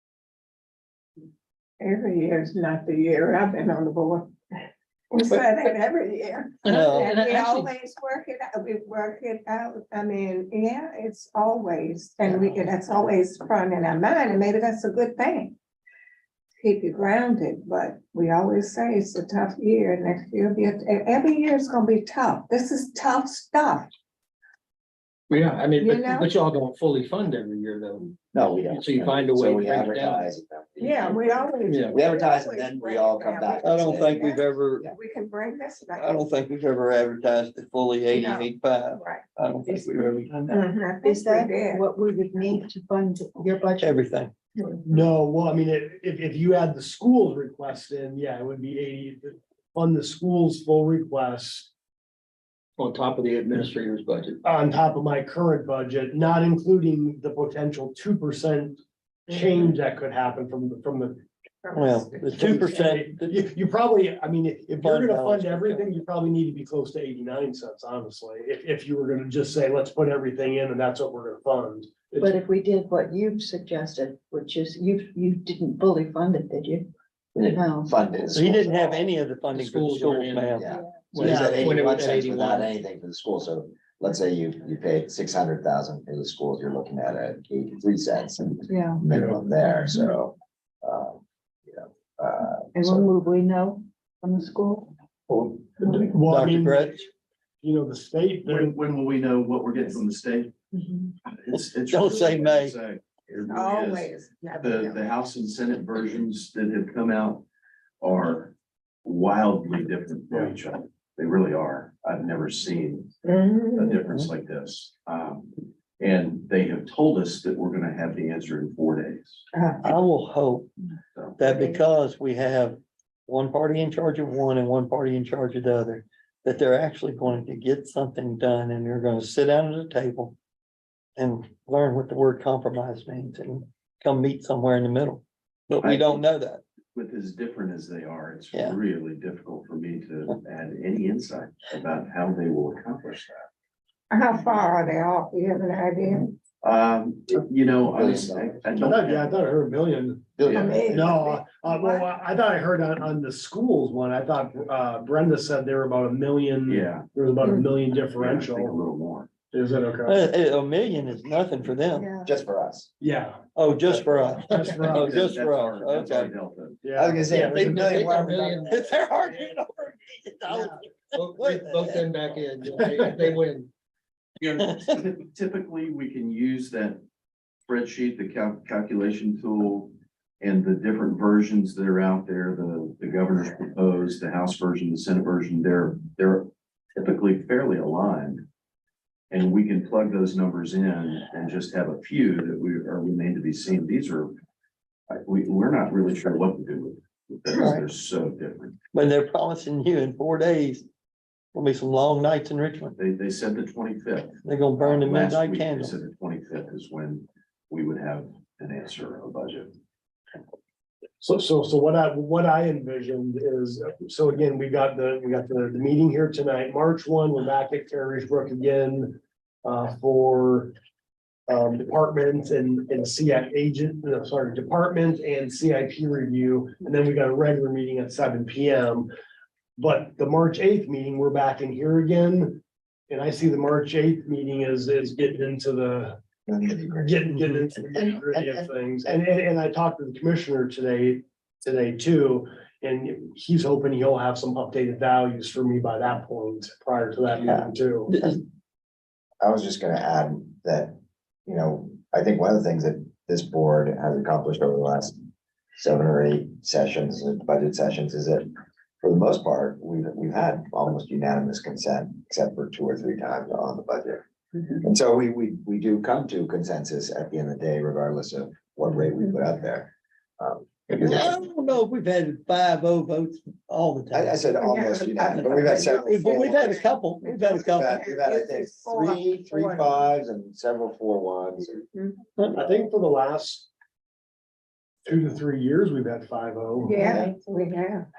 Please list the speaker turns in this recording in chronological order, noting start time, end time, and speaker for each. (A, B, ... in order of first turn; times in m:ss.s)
0:01.8-0:04.3 A
0:05.1-0:15.6 A
0:06.6-0:07.2 B
0:16.6-0:23.9 A
0:25.3-0:28.1 C
0:25.8-0:26.4 A
0:28.3-0:34.3 D
0:28.6-0:30.3 C
0:30.8-0:36.3 A
0:31.7-0:32.0 C
0:33.6-0:34.9 B
0:36.0-0:40.6 B
0:38.1-0:39.3 A
0:40.5-0:41.9 A
0:41.0-0:44.1 E
0:43.8-0:44.3 B
0:44.8-0:51.7 F
0:52.8-0:54.4 C
0:54.4-1:01.3 F
0:59.3-0:59.6 A
1:01.6-1:02.9 A
1:01.8-1:03.3 B
1:02.4-1:12.3 F
1:04.8-1:06.0 B
1:12.2-1:16.9 E
1:17.4-1:19.1 D
1:17.4-1:18.0 E
1:18.3-1:21.5 B
1:19.5-1:22.7 C
1:20.6-1:33.1 D
1:28.7-1:29.1 E
1:32.7-1:34.9 E
1:35.3-1:37.1 F
1:36.2-1:37.1 B
1:37.6-1:38.7 F
1:38.4-1:40.5 G
1:40.7-1:41.1 E
1:41.3-1:47.4 G
1:41.5-1:42.7 B
1:43.5-1:45.0 A
1:48.0-1:53.2 G
1:53.2-1:54.1 A
1:53.8-1:59.4 G
1:59.5-1:59.9 A
1:59.8-2:00.7 B
2:01.1-2:01.4 G
2:01.4-2:10.4 B
2:01.5-2:01.8 A
2:11.2-2:16.6 B
2:15.8-2:16.2 G
2:16.9-2:23.5 G
2:24.1-2:26.4 A
2:26.6-2:29.5 G
2:27.9-2:28.6 D
2:28.7-2:38.8 F
2:30.4-2:31.2 D
2:30.5-2:32.2 A
2:30.5-2:30.8 G
2:36.7-2:37.1 G
2:37.4-2:37.7 A
2:38.0-2:39.3 G
2:39.5-2:40.3 F
2:40.0-2:42.1 B
2:41.9-2:42.3 E
2:42.2-2:42.9 D
2:43.0-2:43.4 F
2:43.6-2:46.3 B
2:43.8-2:44.4 D
2:44.4-2:45.3 F
2:44.9-2:46.8 G
2:46.8-2:47.8 F
2:47.0-2:48.7 D
2:47.3-2:48.8 C
2:47.6-2:52.8 B
2:51.2-2:53.7 C
2:54.4-2:57.0 G
2:54.5-2:55.0 B
2:57.7-3:08.5 G
3:09.3-3:14.3 G
3:15.1-3:18.8 G
3:18.9-3:20.8 B
3:21.5-3:23.0 B
3:23.0-3:29.7 G
3:24.4-3:26.0 B
3:31.2-3:40.7 F
3:41.5-3:49.1 F
3:49.8-3:56.2 F
3:56.5-3:57.4 D
3:56.9-4:08.1 F
3:58.0-3:58.7 D
4:07.4-4:07.7 D
4:08.1-4:08.4 B
4:09.4-4:15.2 D
4:15.8-4:18.5 D
4:19.0-4:24.3 D
4:24.8-4:31.3 D
4:31.0-4:34.5 B
4:34.1-4:36.7 D
4:34.6-4:40.0 A
4:35.2-4:37.9 B
4:37.6-4:41.8 D
4:41.8-4:42.3 A
4:42.4-4:42.8 B
4:42.5-4:43.7 F
4:45.0-4:47.0 F
4:46.8-4:48.1 A
4:47.0-4:47.3 D